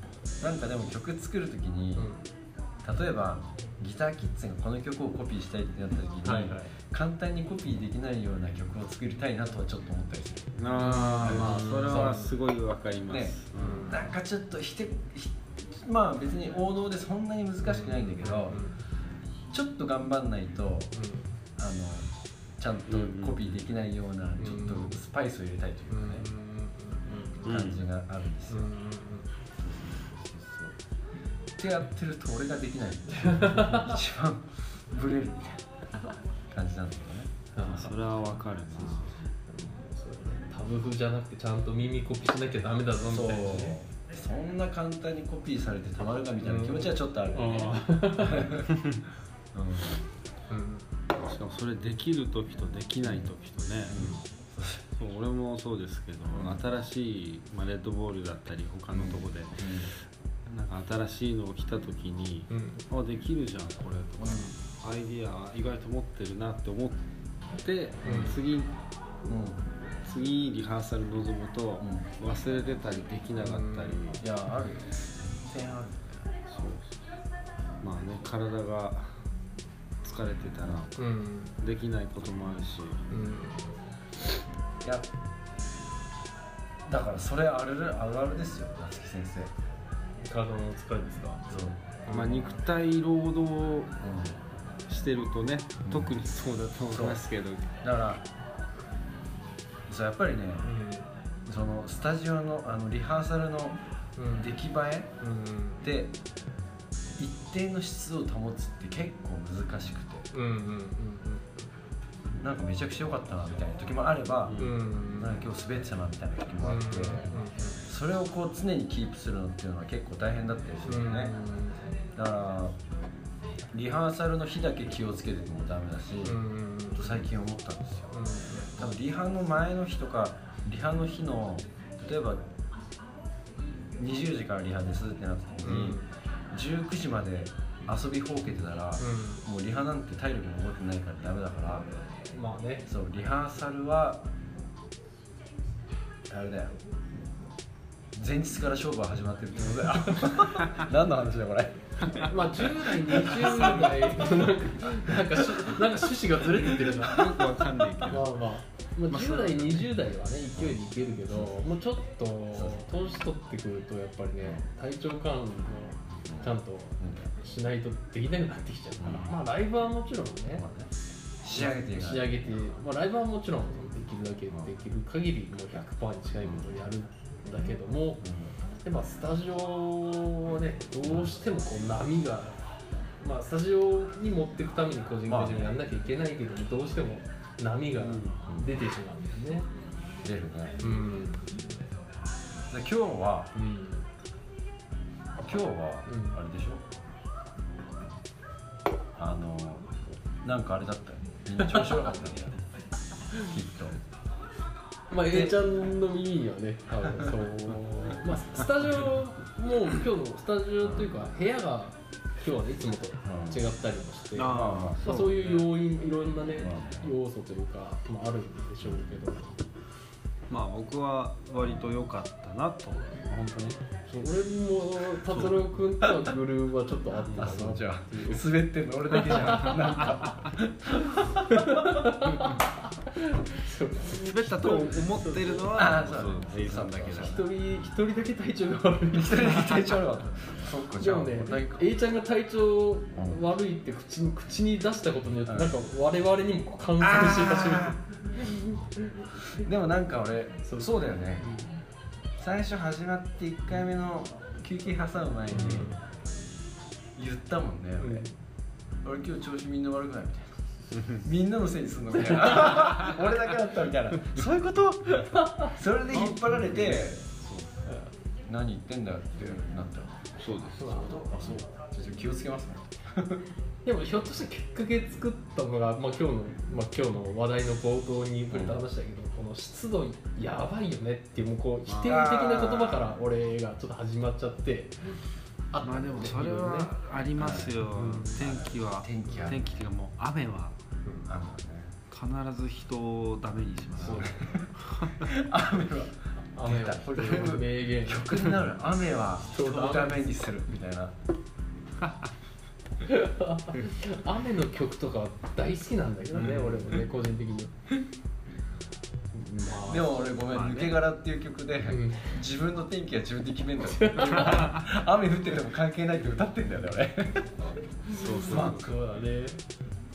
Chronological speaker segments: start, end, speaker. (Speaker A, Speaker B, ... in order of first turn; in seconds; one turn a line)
Speaker A: 0.4-2.1
Speaker B: 1.9-2.2
Speaker A: 2.8-10.6
Speaker B: 6.2-6.7
Speaker C: 10.6-14.0
Speaker B: 10.7-12.3
Speaker A: 11.1-12.1
Speaker A: 13.1-18.6
Speaker B: 13.6-14.0
Speaker B: 17.7-18.8
Speaker A: 19.5-20.9
Speaker B: 20.9-21.3
Speaker A: 21.6-26.2
Speaker C: 22.9-23.4
Speaker B: 24.4-25.0
Speaker B: 25.9-27.7
Speaker C: 27.4-27.8
Speaker A: 27.4-28.7
Speaker B: 28.5-29.3
Speaker A: 29.6-30.8
Speaker A: 31.6-35.6
Speaker B: 33.1-34.0
Speaker A: 36.5-37.9
Speaker B: 37.5-37.9
Speaker C: 37.6-39.1
Speaker B: 38.9-43.8
Speaker A: 43.0-48.9
Speaker B: 46.4-48.6
Speaker A: 49.5-50.1
Speaker B: 50.5-50.8
Speaker C: 51.2-54.0
Speaker A: 53.9-54.8
Speaker B: 53.9-54.2
Speaker C: 55.0-59.9
Speaker A: 56.3-56.6
Speaker A: 58.9-59.9
Speaker C: 60.5-67.0
Speaker B: 62.5-62.8
Speaker A: 64.2-64.5
Speaker C: 67.6-68.7
Speaker B: 68.0-68.4
Speaker A: 69.2-69.6
Speaker C: 70.0-74.2
Speaker A: 71.8-72.1
Speaker B: 73.4-74.1
Speaker A: 74.2-76.3
Speaker C: 76.5-77.0
Speaker C: 77.8-79.1
Speaker C: 80.0-81.0
Speaker B: 81.0-81.5
Speaker C: 81.6-83.0
Speaker B: 83.1-83.8
Speaker A: 84.8-85.1
Speaker A: 86.8-89.5
Speaker B: 90.3-91.5
Speaker A: 91.5-91.8
Speaker B: 92.0-92.5
Speaker C: 92.1-94.0
Speaker A: 94.0-94.4
Speaker C: 94.9-97.7
Speaker A: 95.8-96.1
Speaker A: 96.9-97.2
Speaker A: 97.8-98.2
Speaker A: 99.9-100.7
Speaker B: 100.6-101.1
Speaker A: 101.5-103.8
Speaker B: 104.2-104.5
Speaker A: 104.3-105.1
Speaker B: 105.2-105.8
Speaker A: 105.8-106.2
Speaker A: 107.2-110.3
Speaker B: 110.3-111.7
Speaker A: 112.4-117.3
Speaker C: 114.5-114.8
Speaker B: 114.5-115.4
Speaker B: 116.6-117.8
Speaker A: 117.9-121.3
Speaker B: 120.8-121.8
Speaker A: 122.1-122.8
Speaker A: 123.7-126.4
Speaker B: 126.2-127.2
Speaker A: 126.9-128.2
Speaker B: 128.1-128.9
Speaker A: 128.7-132.4
Speaker A: 133.9-141.9
Speaker B: 135.6-136.1
Speaker B: 139.0-139.4
Speaker B: 142.3-142.9
Speaker A: 142.9-144.2
Speaker A: 146.3-146.8
Speaker A: 148.1-155.9
Speaker B: 150.0-150.3
Speaker B: 152.2-157.4
Speaker C: 156.8-158.4
Speaker B: 158.1-170.7
Speaker C: 159.1-159.9
Speaker A: 162.5-162.8
Speaker A: 166.2-167.2
Speaker A: 169.0-169.3
Speaker A: 170.5-170.9
Speaker A: 171.4-172.4
Speaker B: 171.5-178.2
Speaker A: 176.4-176.7
Speaker A: 178.2-178.5
Speaker B: 178.8-182.6
Speaker A: 181.0-181.3
Speaker B: 183.2-189.7
Speaker A: 185.3-185.8
Speaker C: 188.0-188.4
Speaker A: 188.4-188.7
Speaker A: 190.2-190.9
Speaker B: 190.8-191.5
Speaker A: 192.7-193.5
Speaker B: 193.5-194.1
Speaker A: 195.4-196.8
Speaker B: 196.1-196.4
Speaker A: 199.1-202.6
Speaker B: 201.6-202.1
Speaker A: 203.4-204.0
Speaker B: 205.1-219.5
Speaker A: 205.3-205.6
Speaker A: 210.8-211.1
Speaker A: 213.2-213.6
Speaker C: 214.3-215.7
Speaker A: 214.5-215.0
Speaker A: 216.6-217.1
Speaker C: 220.5-223.2
Speaker A: 223.2-223.8
Speaker B: 224.1-228.5
Speaker C: 225.3-225.6
Speaker A: 227.3-232.1
Speaker B: 229.1-230.1
Speaker C: 229.3-230.3
Speaker B: 231.4-235.8
Speaker C: 234.1-237.4
Speaker A: 235.7-237.4
Speaker B: 237.2-240.0
Speaker A: 239.1-241.9
Speaker B: 240.9-249.5
Speaker A: 245.4-245.7
Speaker A: 247.0-248.0
Speaker A: 249.5-251.6
Speaker B: 250.7-251.7
Speaker A: 252.3-255.9
Speaker B: 255.5-256.0
Speaker A: 257.1-258.2
Speaker B: 258.0-258.3
Speaker A: 259.0-267.4
Speaker B: 265.1-266.9
Speaker A: 268.4-273.4
Speaker C: 270.4-270.9
Speaker B: 270.8-271.3
Speaker B: 273.9-285.1
Speaker A: 278.5-278.8
Speaker C: 281.9-282.3
Speaker A: 282.0-283.1
Speaker B: 285.7-286.9
Speaker C: 285.8-290.8
Speaker A: 287.4-289.8
Speaker B: 287.9-288.4
Speaker A: 291.2-291.9
Speaker C: 292.1-295.3
Speaker B: 294.0-294.4
Speaker A: 294.1-301.1
Speaker B: 296.5-298.6
Speaker B: 299.4-300.4
Speaker C: 302.0-302.3
Speaker B: 303.0-307.7
Speaker C: 306.4-307.0
Speaker B: 309.3-310.1
Speaker A: 309.8-317.5
Speaker C: 310.5-311.0
Speaker B: 311.8-312.4
Speaker B: 313.9-314.8
Speaker C: 318.1-318.9
Speaker B: 318.1-319.6
Speaker A: 318.4-318.9